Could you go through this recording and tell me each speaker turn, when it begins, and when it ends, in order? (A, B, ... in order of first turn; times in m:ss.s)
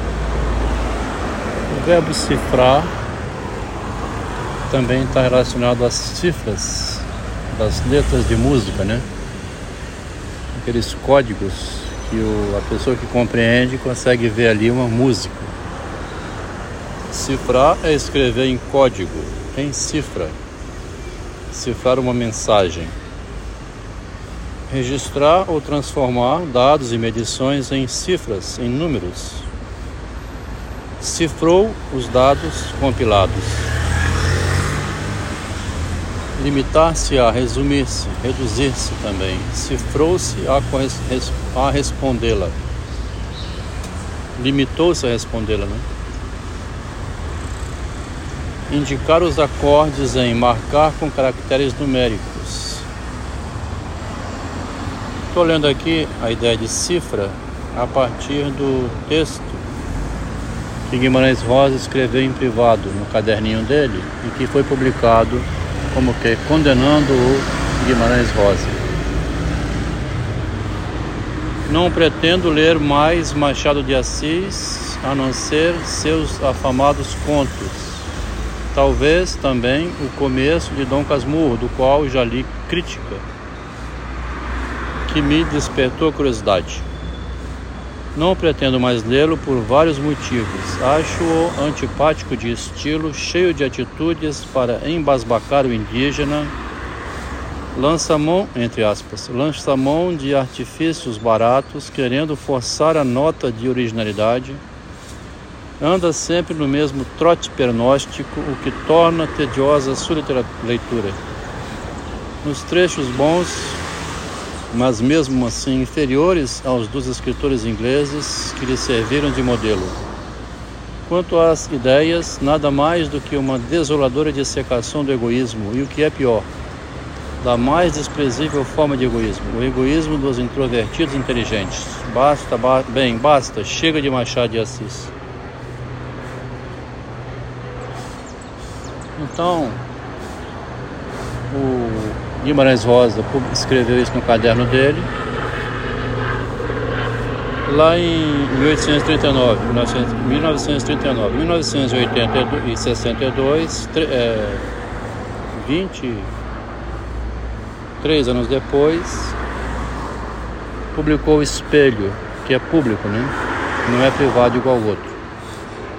0:01.7-0:02.9 A
0:04.7-0:09.0 A
0:10.5-0:15.5 A
0:17.1-0:20.4 A
0:21.5-0:22.9 A
0:24.7-0:29.5 A
0:31.0-0:33.7 A
0:36.4-0:42.6 A
0:44.3-0:45.8 A
0:48.7-0:52.9 A
0:55.3-0:59.6 A
1:00.9-1:08.8 A
1:11.7-1:18.1 A
1:18.7-1:23.2 A
1:25.0-1:26.8 A
1:28.1-1:36.5 A
1:37.7-1:44.6 A
1:45.8-1:51.2 A
1:52.4-1:53.8 A
1:54.7-2:00.0 A
2:01.1-2:06.5 A
2:07.4-2:15.1 A
2:19.2-2:19.8 A
2:21.5-2:25.1 A
2:27.6-2:34.6 A
2:35.5-2:36.3 A
2:38.0-2:39.4 A
2:40.9-2:43.3 A
2:43.8-2:45.1 A